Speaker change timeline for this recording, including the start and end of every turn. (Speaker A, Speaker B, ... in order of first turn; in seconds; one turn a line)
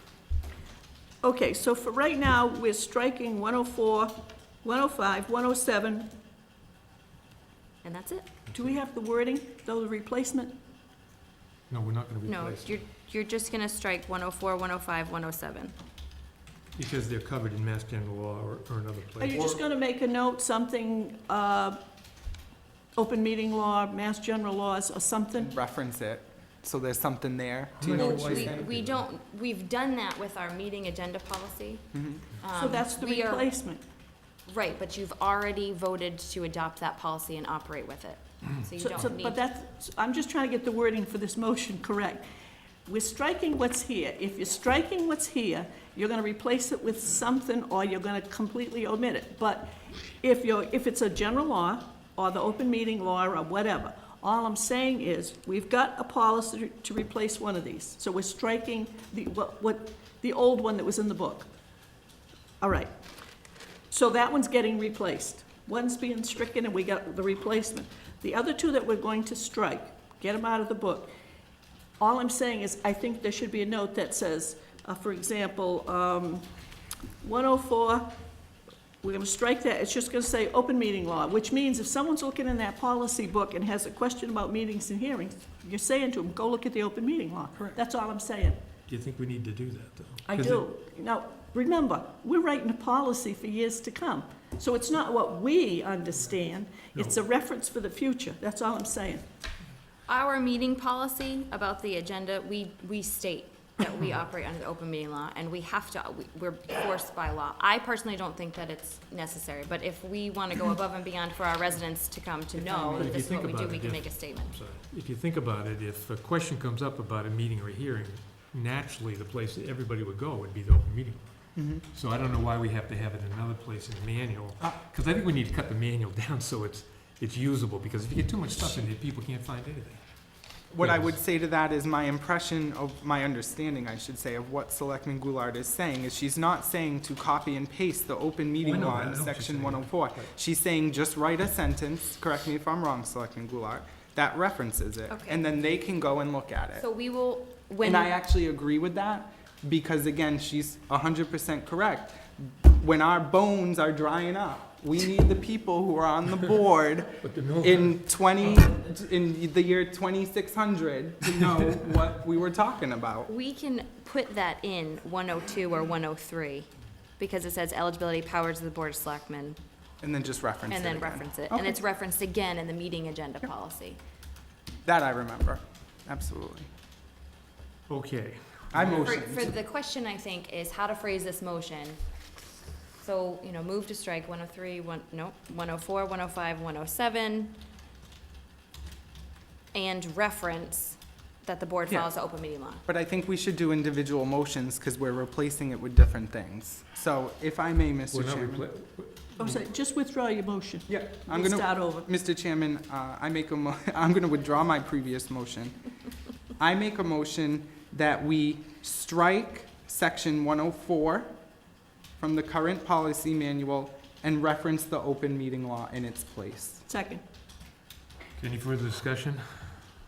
Speaker A: 1.2-4.1
Speaker A: 4.6-6.1
Speaker B: 7.8-8.3
Speaker A: 8.5-10.6
Speaker C: 11.7-12.8
Speaker B: 12.2-15.7
Speaker C: 16.8-19.6
Speaker A: 19.2-21.8
Speaker A: 22.9-25.5
Speaker D: 25.4-28.7
Speaker C: 27.8-29.0
Speaker B: 27.8-31.9
Speaker D: 31.9-32.2
Speaker B: 32.4-33.5
Speaker A: 32.5-33.8
Speaker B: 34.5-39.4
Speaker A: 38.8-42.2
Speaker A: 42.9-61.5
Speaker A: 62.6-62.9
Speaker A: 63.9-71.1
Speaker A: 72.0-76.5
Speaker A: 77.2-78.1
Speaker A: 79.0-88.6
Speaker C: 88.9-90.6
Speaker A: 90.3-99.2
Speaker B: 100.1-114.5
Speaker D: 112.5-113.1
Speaker C: 113.0-130.0
Speaker D: 121.5-121.8
Speaker D: 130.7-146.8
Speaker C: 130.8-131.2
Speaker C: 138.6-140.3
Speaker B: 145.1-145.4
Speaker B: 146.8-148.1
Speaker D: 147.8-163.3
Speaker C: 157.2-158.0
Speaker B: 163.3-169.6
Speaker D: 170.0-171.8
Speaker B: 170.7-174.0
Speaker D: 174.8-176.7
Speaker C: 177.9-179.4
Speaker D: 178.7-179.5
Speaker B: 179.0-182.0
Speaker B: 183.0-187.6
Speaker B: 189.7-192.8
Speaker D: 192.8-198.7
Speaker C: 198.1-199.6
Speaker A: 199.4-202.1
Speaker D: 200.9-205.8
Speaker D: 206.6-211.3
Speaker D: 212.2-216.8
Speaker A: 216.9-217.2
Speaker C: 218.4-219.9